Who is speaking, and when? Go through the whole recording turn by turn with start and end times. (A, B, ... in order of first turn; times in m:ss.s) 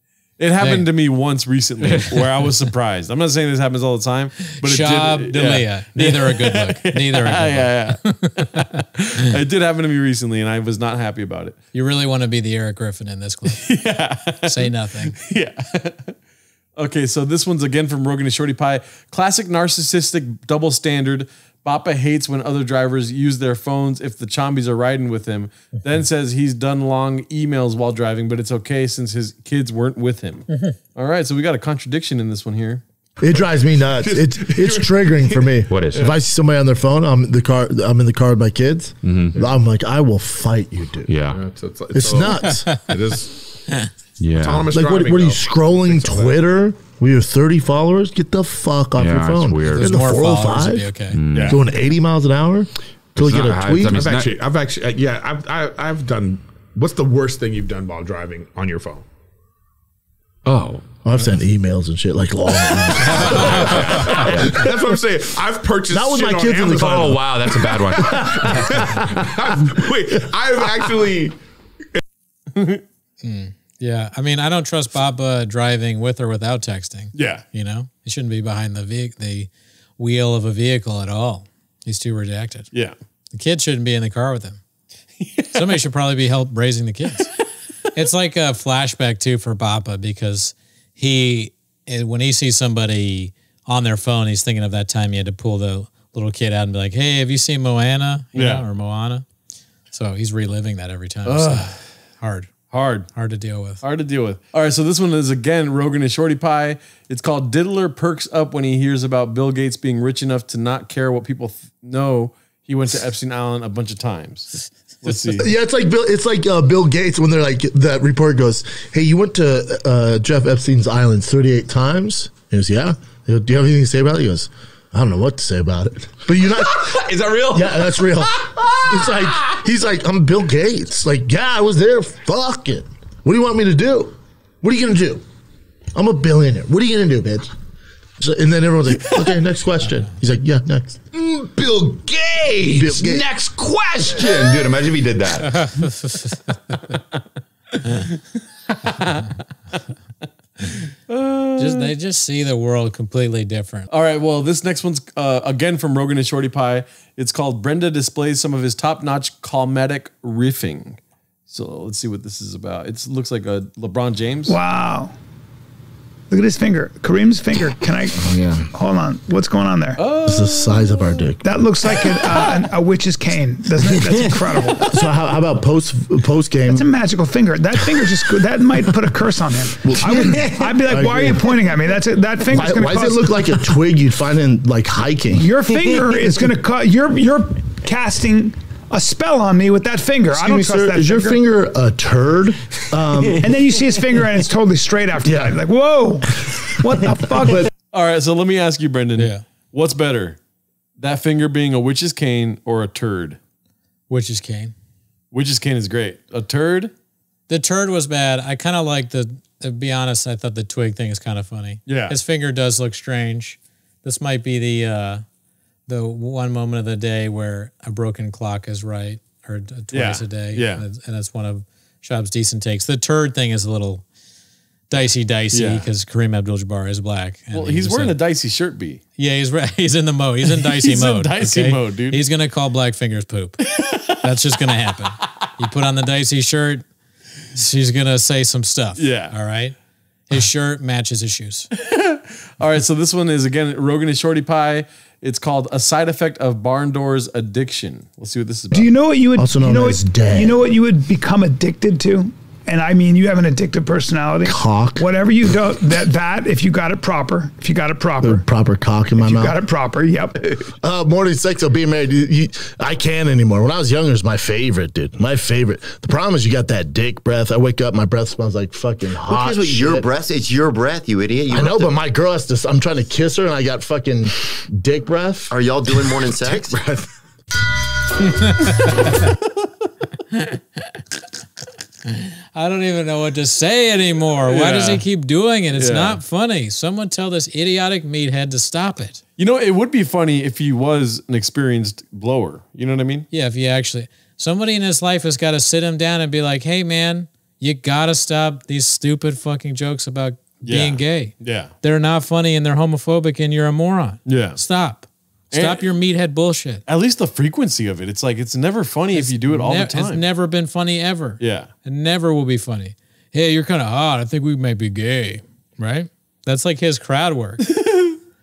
0:00.4-0:11.6 A
0:00.6-0:00.9 B
0:01.8-0:02.1 B
0:04.5-0:08.6 B
0:11.7-0:13.7 B
0:13.6-0:16.1 A
0:14.4-0:15.1 B
0:16.8-0:32.8 A
0:33.2-0:41.1 C
0:34.0-0:35.4 D
0:35.7-0:36.1 E
0:39.0-0:39.4 E
0:41.1-0:41.4 E
0:41.3-0:43.9 D
0:41.9-0:42.7 C
0:44.2-0:44.7 E
0:44.4-0:46.4 D
0:44.7-0:50.9 C
0:49.0-0:50.0 E
0:49.7-0:51.2 B
0:51.1-0:51.6 E
0:51.3-0:51.6 D
0:51.4-0:54.1 C
0:53.2-0:54.4 E
0:53.9-0:59.0 D
1:00.4-1:00.9 E
1:01.0-1:04.7 C
1:03.0-1:04.7 E
1:03.2-1:11.4 D
1:05.9-1:07.2 C
1:06.8-1:08.8 E
1:12.5-1:12.8 A
1:13.2-1:22.7 B
1:17.1-1:17.4 A
1:23.3-1:24.6 B
1:25.2-1:25.8 A
1:25.5-1:27.3 B
1:27.9-1:39.2 B
1:38.3-1:38.6 A
1:39.9-1:42.5 B
1:41.2-1:41.8 A
1:42.7-1:43.1 A
1:43.1-1:43.8 B
1:43.8-1:55.5 A
1:55.3-2:15.2 C
2:06.7-2:09.1 E
2:15.9-2:17.5 C
2:18.2-2:21.1 C
2:21.2-2:24.2 D
2:22.1-2:25.8 E
2:22.6-2:23.2 C
2:25.5-2:26.4 B
2:27.9-2:29.2 A
2:31.1-2:31.9 A
2:31.6-2:33.9 B
2:33.9-2:44.6 A
2:44.5-2:45.1 F
2:46.3-2:50.0 F
2:48.2-2:48.7 C
2:50.0-2:51.3 A
2:50.2-2:51.5 C
2:51.4-2:54.8 F
2:52.1-2:52.6 A
2:54.9-2:56.8 C
2:56.7-3:03.5 F
2:59.8-3:01.5 C
3:02.5-3:05.5 C
3:05.3-3:11.4 F
3:10.3-3:13.5 C
3:13.4-3:17.7 F
3:15.2-3:15.5 C
3:17.1-3:17.7 C
3:17.9-3:20.4 A
3:19.2-3:19.4 B
3:21.0-3:23.4 A
3:24.1-3:24.7 B
3:25.3-3:26.9 A
3:27.5-3:35.2 B
3:31.9-3:32.2 A
3:35.9-3:44.0 B
3:39.9-3:40.8 A
3:44.9-3:48.2 B
3:45.5-3:45.9 A
3:47.5-3:49.0 A
3:49.2-3:53.6 B
3:50.4-3:52.2 A
3:53.8-3:54.1 A
3:54.2-3:56.8 B
3:57.5-3:59.8 B
3:59.0-3:59.3 A
4:00.3-4:01.7 B
4:01.8-4:08.9 A
4:08.7-4:18.4 F
4:09.4-4:10.6 C
4:14.4-4:15.0 C
4:18.2-4:19.5 C
4:19.2-4:20.5 F
4:20.8-4:30.1 C
4:29.2-4:31.9 G
4:31.5-4:35.5 C
4:35.5-4:36.8 G
4:38.4-4:39.1 B
4:40.3-4:40.6 B
4:42.2-4:49.2 B
4:44.5-4:45.0 A
4:45.8-4:46.2 A
4:49.4-4:53.3 A
4:53.3-5:06.8 B
5:00.6-5:01.7 A
5:04.2-5:04.6 A
5:05.5-5:05.8 A
5:06.9-5:10.2 A
5:09.1-5:17.6 B
5:11.4-5:11.7 A
5:17.8-5:18.2 A